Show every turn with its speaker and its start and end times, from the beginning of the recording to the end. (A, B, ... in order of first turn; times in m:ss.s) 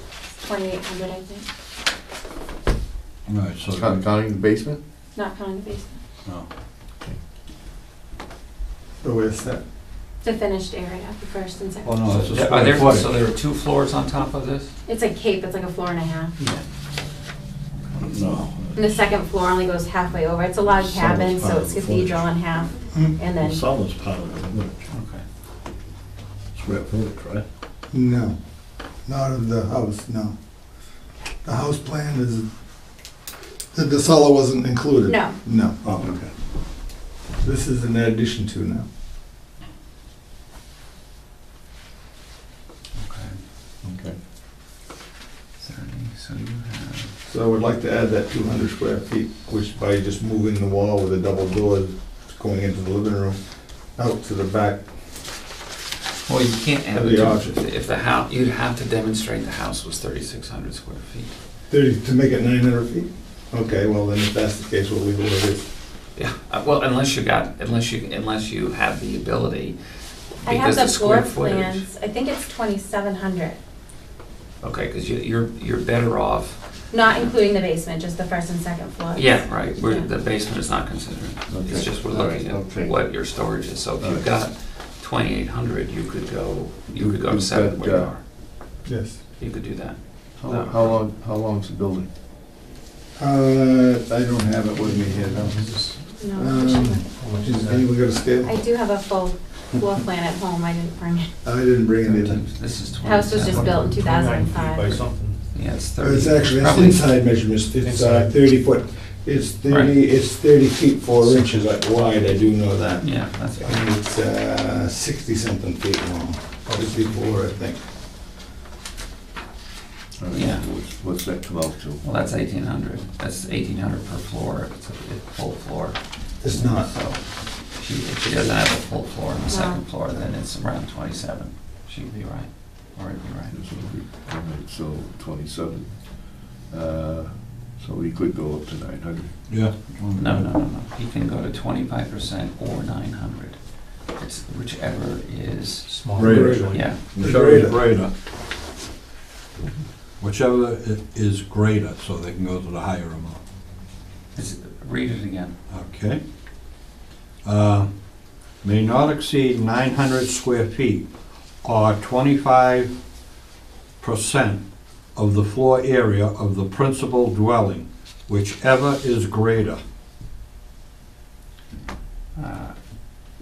0:00.4-0:01.4 A
0:03.2-0:04.0 B
0:03.7-0:04.8 C
0:05.1-0:06.0 A
0:09.0-0:09.6 D
0:10.2-0:12.0 A
0:11.8-0:13.1 B
0:12.0-0:14.7 E
0:14.8-0:16.4 A
0:17.9-0:18.9 B
0:18.7-0:23.6 A
0:20.7-0:22.2 B
0:23.4-0:24.8 B
0:24.9-0:25.2 E
0:26.5-0:27.4 B
0:27.9-0:28.4 D
0:29.0-0:30.3 D
0:31.4-0:32.5 D
0:33.7-0:36.3 D
0:35.0-0:35.4 A
0:37.4-0:38.8 D
0:43.0-0:43.4 E
0:43.8-0:44.2 C
0:45.6-0:47.1 E
0:47.2-0:53.4 D
0:53.9-0:54.9 D
0:56.2-1:01.3 E
0:56.9-0:57.6 D
1:01.7-1:05.7 D
1:06.2-1:09.8 E
1:10.4-1:11.8 E
1:10.4-1:13.6 A
1:14.6-1:17.3 E
1:16.9-1:20.1 A
1:19.1-1:28.2 E
1:21.5-1:24.4 C
1:27.0-1:28.2 C
1:28.8-1:29.2 D
1:29.4-1:31.0 E
1:30.4-1:32.1 C
1:33.2-1:38.6 D
1:34.8-1:38.0 F
1:36.2-1:37.5 A
1:38.4-1:41.3 A
1:41.4-1:42.4 D
1:42.1-1:43.8 E
1:43.0-1:45.1 A
1:43.3-1:45.5 F
1:45.5-1:47.0 E
1:46.0-1:57.8 D
1:47.7-1:48.4 F
1:49.7-1:49.9 E
1:53.0-1:53.8 E
1:56.6-1:57.5 F
2:00.2-2:02.0 C
2:00.3-2:00.7 E
2:02.0-2:13.6 E
2:06.4-2:06.9 D
2:09.5-2:09.8 A
2:13.5-2:19.3 C
2:19.5-2:20.5 B
2:20.2-2:23.6 E
2:24.2-2:27.0 E
2:25.8-2:27.4 F
2:26.1-2:28.1 B
2:26.2-2:27.8 D
2:30.2-2:33.4 B
2:34.3-2:35.5 E
2:35.7-2:36.2 B
2:37.4-2:37.9 B
2:38.6-2:41.1 B
2:41.6-2:42.9 B
2:44.0-2:44.6 B
2:45.2-2:49.8 B
2:52.4-2:52.7 E